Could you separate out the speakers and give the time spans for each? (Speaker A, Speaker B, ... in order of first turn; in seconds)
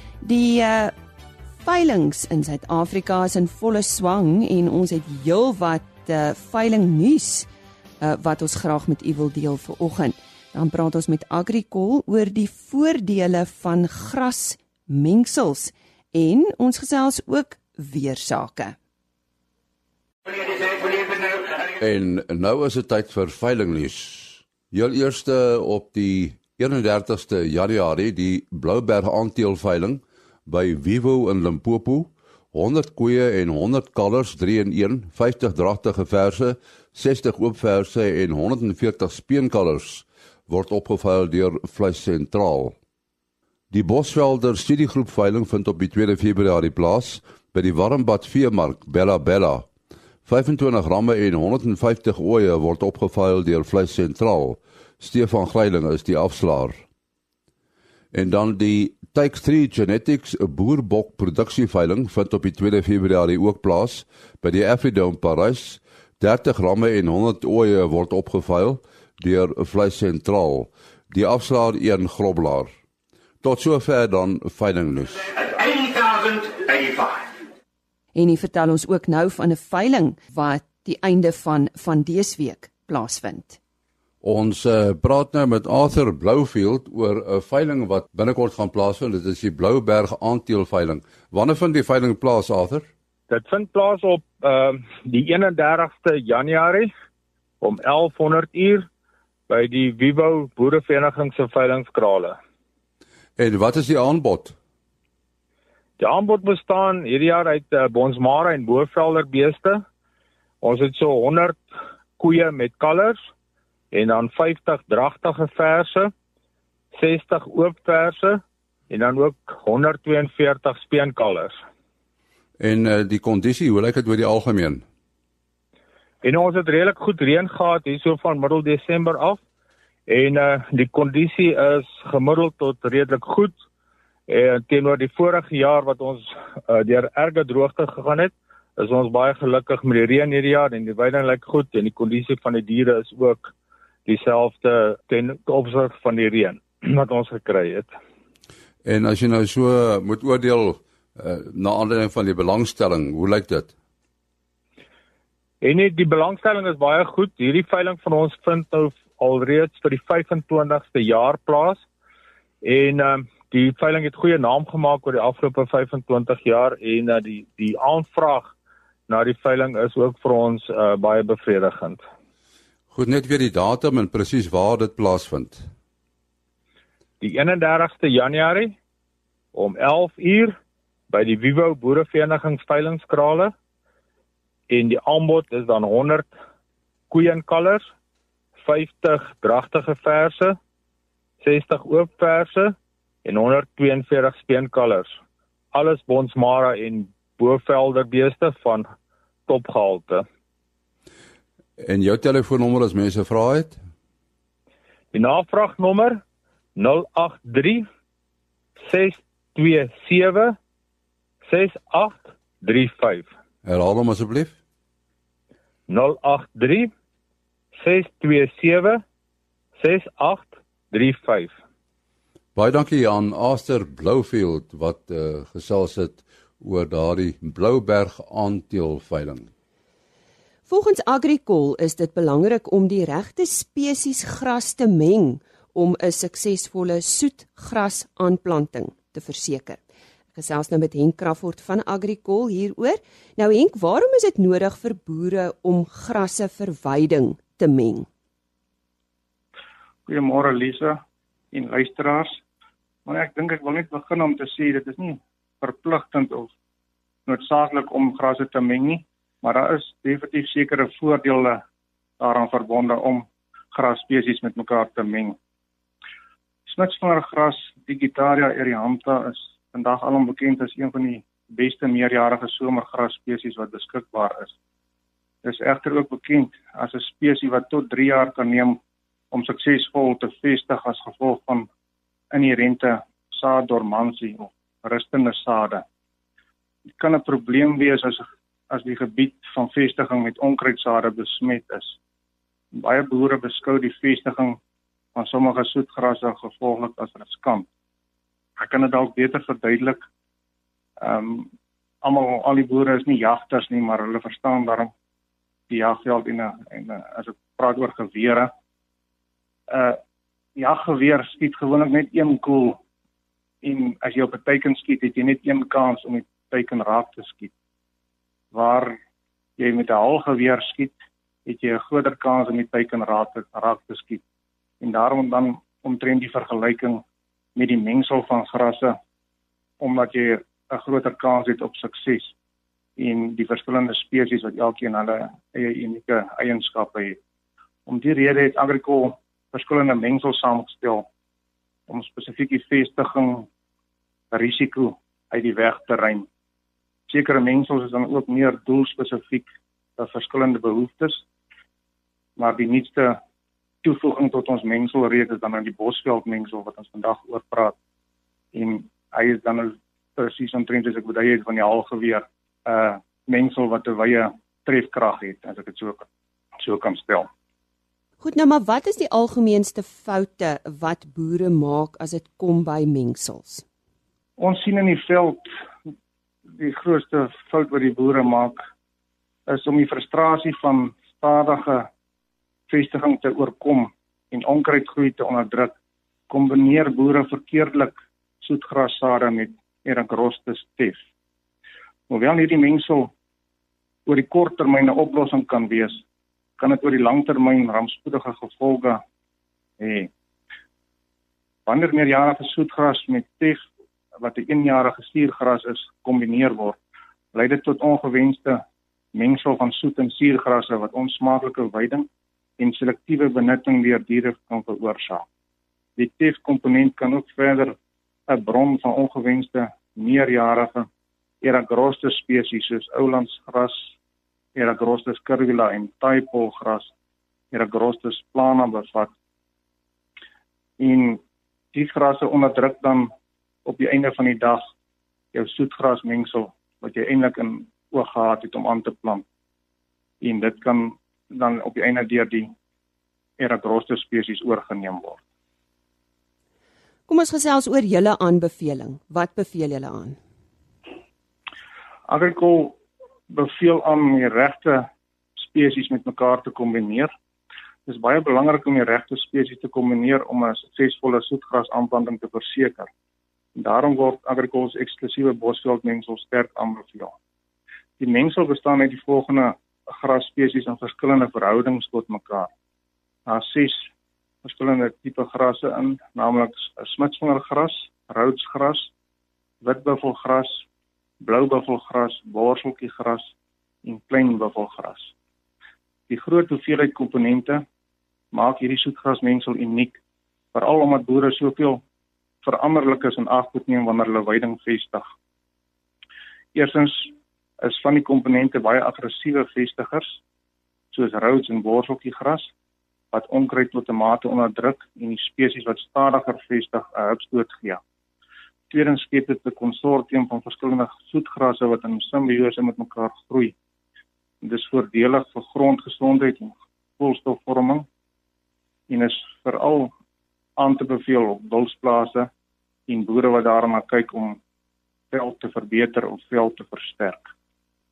Speaker A: 0.2-0.9, 1.6-7.5, 8.0-18.8, 78.2-83.6, 230.7-239.8, 240.3-248.1, 368.2-373.6, 447.1-450.2
Speaker B: 21.6-42.8, 43.7-49.7, 50.3-56.8, 58.1-72.7, 73.4-75.7, 84.2-92.9, 103.4-104.5, 122.6-124.8, 148.8-153.7, 172.9-175.7, 201.8-203.8, 213.6-214.5, 222.6-229.5
Speaker C: 93.3-96.9, 97.6-98.9, 99.5-102.4, 106.0-109.8, 110.6-111.6, 112.2-113.2, 113.9-116.1, 117.0-121.6, 126.2-129.4, 130.1-133.6, 134.3-143.5, 144.1-147.9, 155.6-161.8, 162.6-168.5, 169.1-172.0, 177.2-178.8, 179.5-180.6, 181.1-183.5, 184.7-186.3, 187.1-187.8, 188.6-190.6, 191.4-195.2, 195.7-198.9, 199.5-200.2, 205.1-206.2, 206.8-207.9, 208.8-210.6, 211.5-213.3, 215.9-216.9, 217.8-219.0, 219.8-221.5
Speaker D: 250.1-251.0, 251.5-252.4, 253.1-256.5, 257.3-261.6, 262.2-265.4, 266.7-274.5, 275.4-278.8, 279.3-281.7, 282.3-285.8, 287.0-292.0, 292.7-294.6, 295.1-297.7, 298.6-300.0, 301.0-301.5, 302.0-304.9, 305.7-308.5, 309.7-310.0, 310.6-312.8, 313.6-317.5, 318.5-319.0, 319.6-324.2, 324.8-327.0, 327.6-329.0, 329.8-332.3, 333.0-337.2, 337.9-341.1, 341.9-343.5, 344.3-346.3, 347.1-351.2, 352.4-353.2, 353.8-357.8, 358.5-366.1, 366.6-367.3, 374.4-375.5, 376.6-378.6, 379.5-381.9, 382.7-385.8, 386.3-391.0, 392.1-393.1, 394.1-396.0, 396.6-399.0, 399.8-400.1, 401.7-403.6, 404.2-406.8, 407.3-408.6, 409.1-412.1, 412.6-415.2, 416.0-417.8, 418.3-420.9, 421.4-423.9, 424.6-426.9, 427.5-429.1, 430.8-431.2, 431.7-433.1, 433.6-434.7, 435.3-439.2, 440.2-442.5, 443.4-445.2, 452.1-452.8, 453.3-457.1, 457.9-462.9, 463.6-467.1, 468.0-472.5, 473.3-473.9, 474.4-478.9, 479.6-480.6, 481.2-483.3, 483.8-485.1, 486.1-487.6, 488.3-490.0, 490.5-491.8, 492.4-495.1, 496.5-500.2, 500.9-502.5, 503.1-507.8, 508.7-513.5, 514.4-517.9, 518.9-519.9, 520.6-522.3, 522.9-524.4, 525.1-527.3